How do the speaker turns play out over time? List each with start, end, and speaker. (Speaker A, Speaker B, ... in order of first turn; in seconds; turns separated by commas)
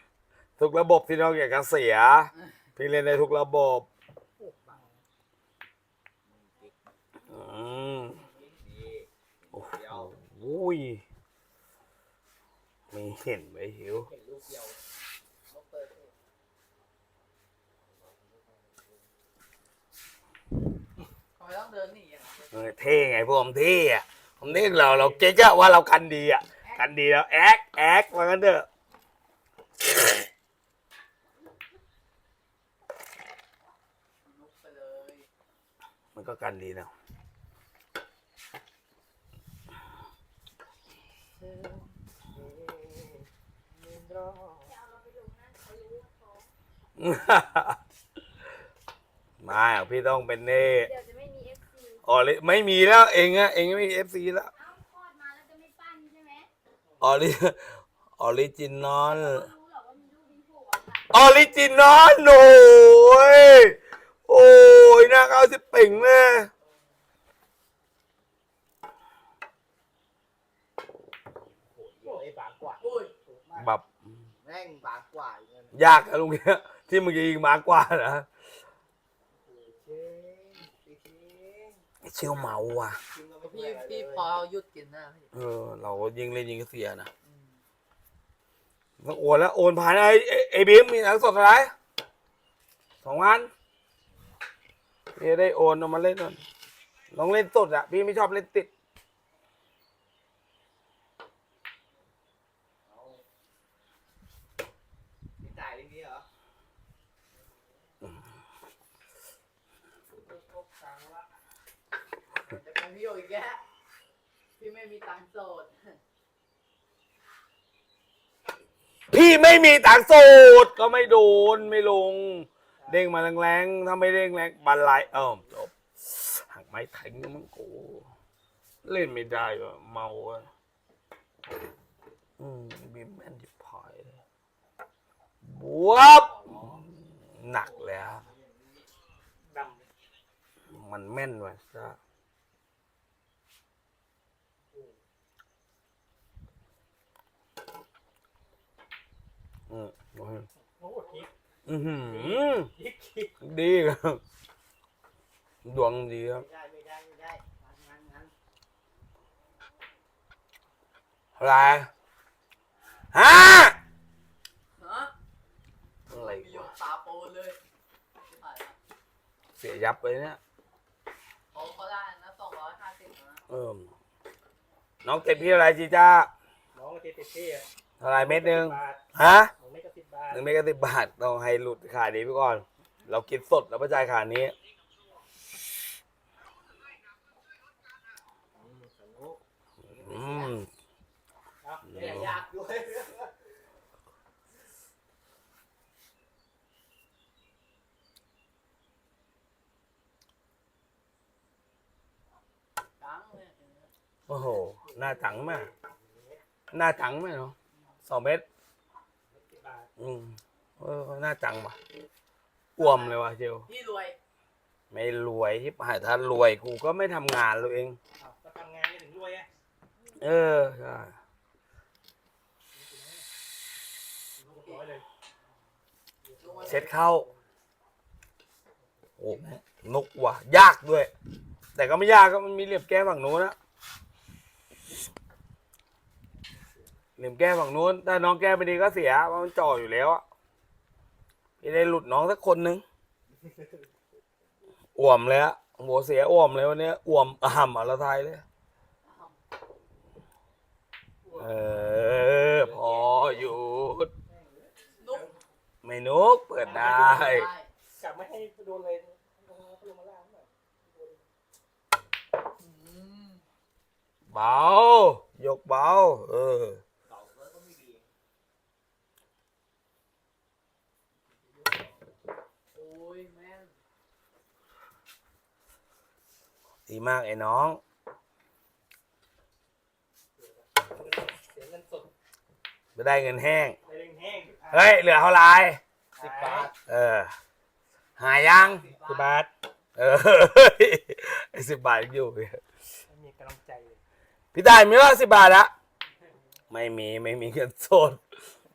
Speaker A: 0.6-3.9, Speaker B: 4.5-4.8, Speaker C: 6.2-6.8, Speaker A: 7.3-8.2, Speaker D: 8.1-8.6, Speaker C: 8.5-10.1, Speaker A: 9.5-11.0, Speaker A: 12.9-14.1, Speaker C: 14.0-14.8, Speaker D: 15.5-16.1, Speaker C: 18.0-19.0, Speaker D: 21.4-22.5, Speaker A: 22.5-28.6, Speaker D: 26.6-26.9, Speaker D: 34.2-35.3, Speaker A: 36.1-36.9, Speaker C: 41.4-44.8, Speaker E: 44.6-46.5, Speaker A: 47.0-47.8, Speaker A: 49.4-50.9, Speaker E: 50.7-52.0, Speaker A: 52.0-54.5, Speaker E: 54.5-56.5, Speaker A: 57.0-59.5, Speaker E: 59.0-61.4, Speaker A: 61.1-66.5, Speaker C: 71.7-73.0, Speaker B: 72.0-72.3, Speaker D: 72.8-73.1, Speaker B: 73.2-73.7, Speaker A: 73.6-74.1, Speaker C: 74.4-75.8, Speaker A: 75.7-78.3, Speaker C: 79.6-81.8, Speaker A: 82.0-83.0, Speaker C: 83.0-84.3, Speaker D: 83.4-85.3, Speaker A: 85.3-87.1, Speaker D: 87.2-87.5, Speaker A: 89.0-91.7, Speaker A: 93.0-93.5, Speaker A: 95.2-96.4, Speaker A: 97.1-98.7, Speaker C: 102.8-103.2, Speaker C: 105.4-106.2, Speaker B: 110.2-111.2, Speaker D: 112.3-113.6, Speaker D: 114.6-116.0, Speaker A: 119.1-128.1, Speaker A: 128.8-130.5, Speaker A: 132.4-134.2, Speaker A: 135.4-136.3, Speaker C: 136.1-136.8, Speaker A: 137.3-138.2, Speaker C: 137.6-138.8, Speaker B: 139.4-139.8, Speaker A: 140.7-142.0, Speaker A: 149.7-150.4, Speaker B: 150.8-151.3, Speaker A: 151.7-152.7, Speaker B: 152.0-153.3, Speaker A: 153.4-154.2, Speaker A: 155.6-156.4, Speaker C: 156.3-158.3, Speaker A: 161.4-161.9, Speaker C: 162.7-163.1, Speaker A: 163.1-163.8, Speaker D: 164.8-165.1, Speaker A: 166.1-166.7, Speaker D: 166.1-167.6, Speaker D: 168.3-168.8, Speaker A: 169.6-170.4, Speaker D: 171.5-173.4, Speaker A: 173.5-173.9, Speaker A: 175.0-176.3, Speaker B: 176.7-179.0, Speaker A: 178.0-179.5, Speaker B: 179.6-180.5, Speaker A: 180.3-184.5, Speaker C: 188.5-190.6, Speaker A: 189.9-190.7, Speaker B: 191.6-192.3, Speaker A: 191.8-192.3, Speaker C: 191.9-193.4, Speaker D: 203.0-203.9, Speaker A: 204.3-205.7, Speaker B: 204.7-206.4, Speaker A: 206.7-207.5, Speaker A: 208.1-208.4, Speaker B: 209.3-209.9, Speaker A: 210.0-211.8, Speaker A: 212.8-213.7, Speaker D: 212.8-214.2, Speaker A: 214.9-218.0, Speaker B: 218.2-219.5, Speaker A: 220.2-221.1, Speaker B: 222.7-223.2, Speaker B: 224.4-225.0, Speaker D: 224.5-224.8, Speaker B: 226.2-227.4, Speaker D: 226.4-227.0, Speaker A: 226.7-227.2, Speaker A: 229.2-231.1, Speaker A: 231.8-233.6, Speaker A: 237.2-240.2, Speaker A: 241.6-242.8, Speaker C: 243.4-243.7, Speaker A: 244.9-248.4, Speaker D: 249.0-249.3, Speaker B: 251.2-251.5, Speaker A: 251.4-254.1, Speaker C: 252.4-253.6, Speaker D: 255.0-255.3, Speaker A: 255.8-257.5, Speaker B: 256.6-257.3, Speaker D: 256.7-257.7, Speaker B: 258.0-261.2, Speaker D: 262.6-263.4, Speaker A: 264.3-266.8, Speaker C: 267.1-268.1, Speaker D: 272.7-273.7, Speaker A: 276.9-277.8, Speaker B: 280.4-282.1, Speaker A: 283.0-283.8, Speaker B: 283.9-284.6, Speaker A: 284.7-285.8, Speaker B: 286.1-286.7, Speaker C: 286.2-286.7, Speaker A: 286.6-287.3, Speaker A: 288.2-288.9, Speaker D: 288.8-289.4, Speaker B: 289.0-289.5, Speaker A: 290.0-292.6, Speaker B: 293.1-294.0, Speaker A: 294.5-295.7, Speaker A: 296.7-298.2